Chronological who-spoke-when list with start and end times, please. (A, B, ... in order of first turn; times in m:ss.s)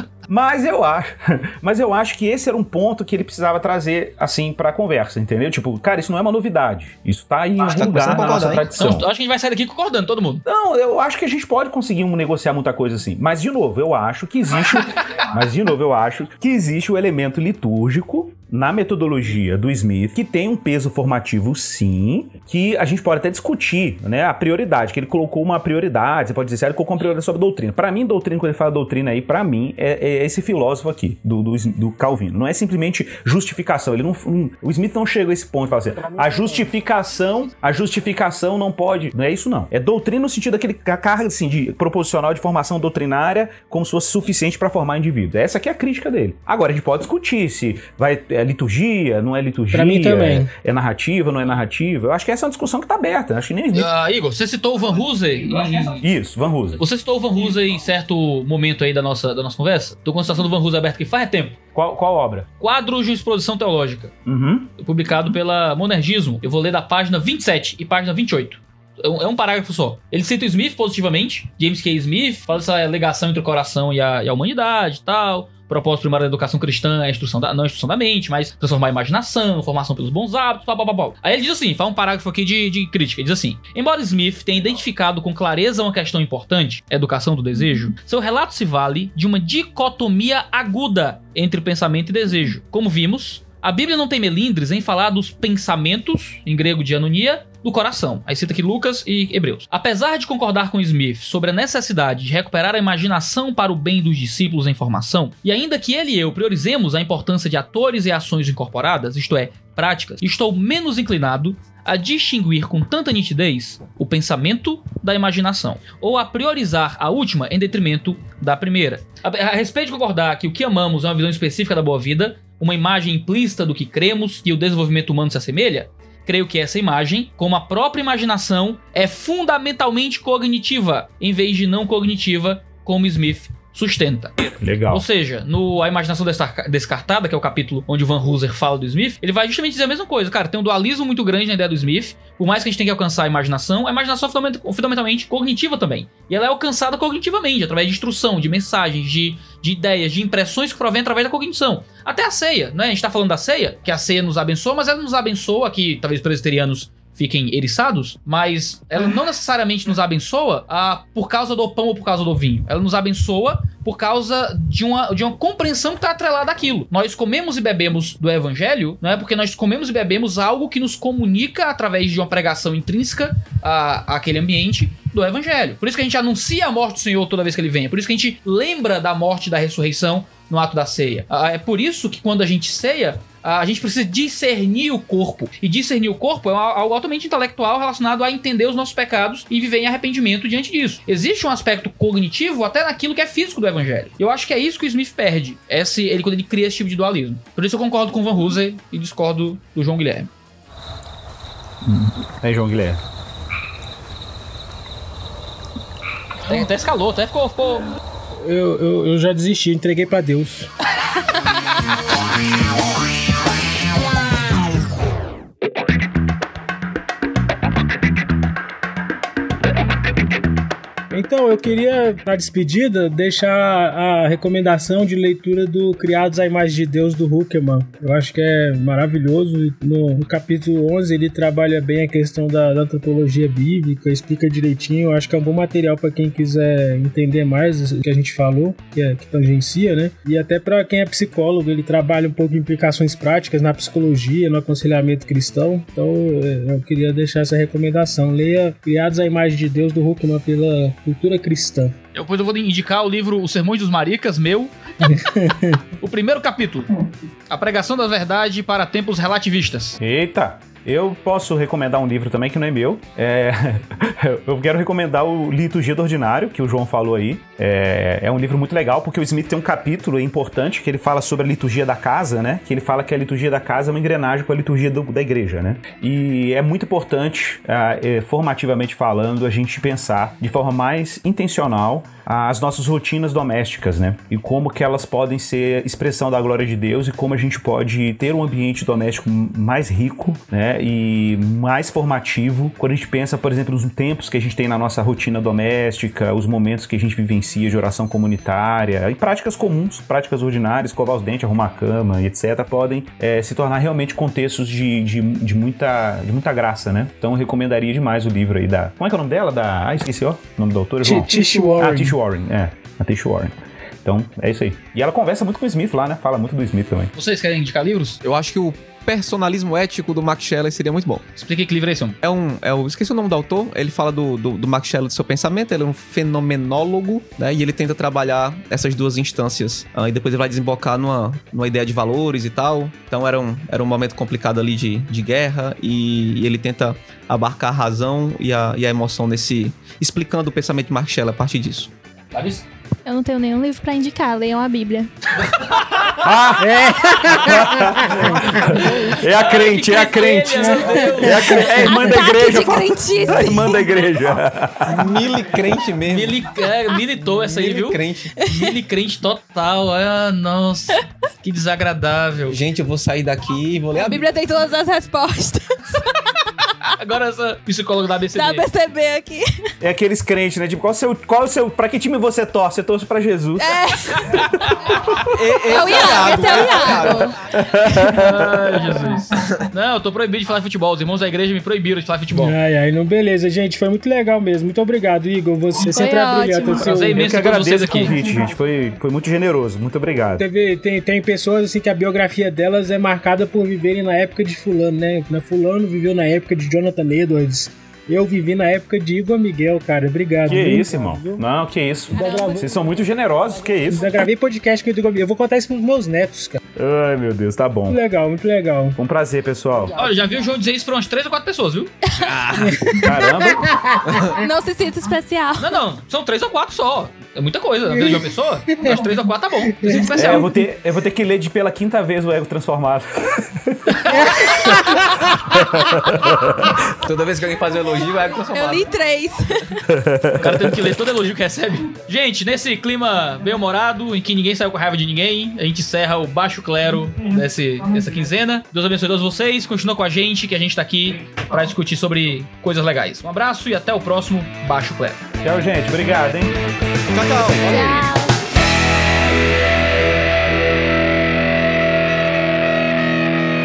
0:00.3-0:09.1 A
0:07.6-0:08.7 B
0:08.8-0:10.4 C
0:10.4-0:53.9 A
0:49.7-0:50.5 D
0:53.7-0:56.0 C
0:56.0-0:56.8 A
0:56.8-1:01.6 C
1:01.7-1:02.5 A
1:02.6-1:04.1 C
1:04.2-1:04.7 A
1:04.8-3:20.3 C
2:14.6-2:15.0 A
3:21.8-3:23.0 A
3:26.4-3:27.9 C
3:28.4-3:30.7 D
3:41.1-4:11.9 D
4:12.1-4:15.3 C
4:15.1-4:15.8 D
4:16.0-4:20.0 C
4:20.0-5:17.1 A
5:11.0-5:12.2 D
5:17.1-5:18.2 C
5:18.2-5:21.2 B
5:21.4-5:22.2 C
5:22.2-5:41.9 B
5:42.3-5:42.6 C
5:43.0-5:45.1 E
5:45.5-5:46.1 C
5:46.0-5:55.1 A
5:46.6-5:48.6 D
5:47.3-5:47.6 C
5:48.5-5:51.8 C
5:50.6-5:51.5 D
5:51.5-5:53.8 E
5:54.8-5:56.4 B
5:56.1-6:02.6 C
5:57.4-5:58.3 B
5:58.4-5:58.7 E
6:02.5-6:04.2 B
6:04.0-6:06.3 E
6:07.0-6:08.6 C
6:08.3-6:09.7 E
6:09.8-6:15.2 A
6:13.6-6:14.4 E
6:15.3-6:17.3 B
6:15.7-6:17.4 E
6:17.5-6:19.0 A
6:18.0-6:22.6 C
6:22.3-6:27.2 D
6:25.8-6:27.0 E
6:26.8-6:28.2 C
6:27.1-6:30.4 A
6:30.4-6:41.4 D
6:40.4-6:44.2 A
6:42.2-6:42.6 E
6:43.9-6:46.6 D
6:46.7-6:48.0 A
6:47.9-6:49.0 D
6:49.0-6:50.0 A
6:50.0-6:52.8 C
6:52.1-6:52.4 E
6:52.6-6:54.3 D
6:52.9-6:53.8 A
6:54.2-6:55.7 E
6:55.6-7:00.5 C
6:57.9-6:59.0 D
6:59.8-7:00.5 D
7:00.1-7:06.8 A
7:07.0-7:08.9 B
7:08.5-7:09.8 E
7:09.9-7:10.8 A
7:10.4-7:25.2 C
7:25.4-7:26.6 A
7:27.1-7:28.1 B
7:27.6-7:28.4 E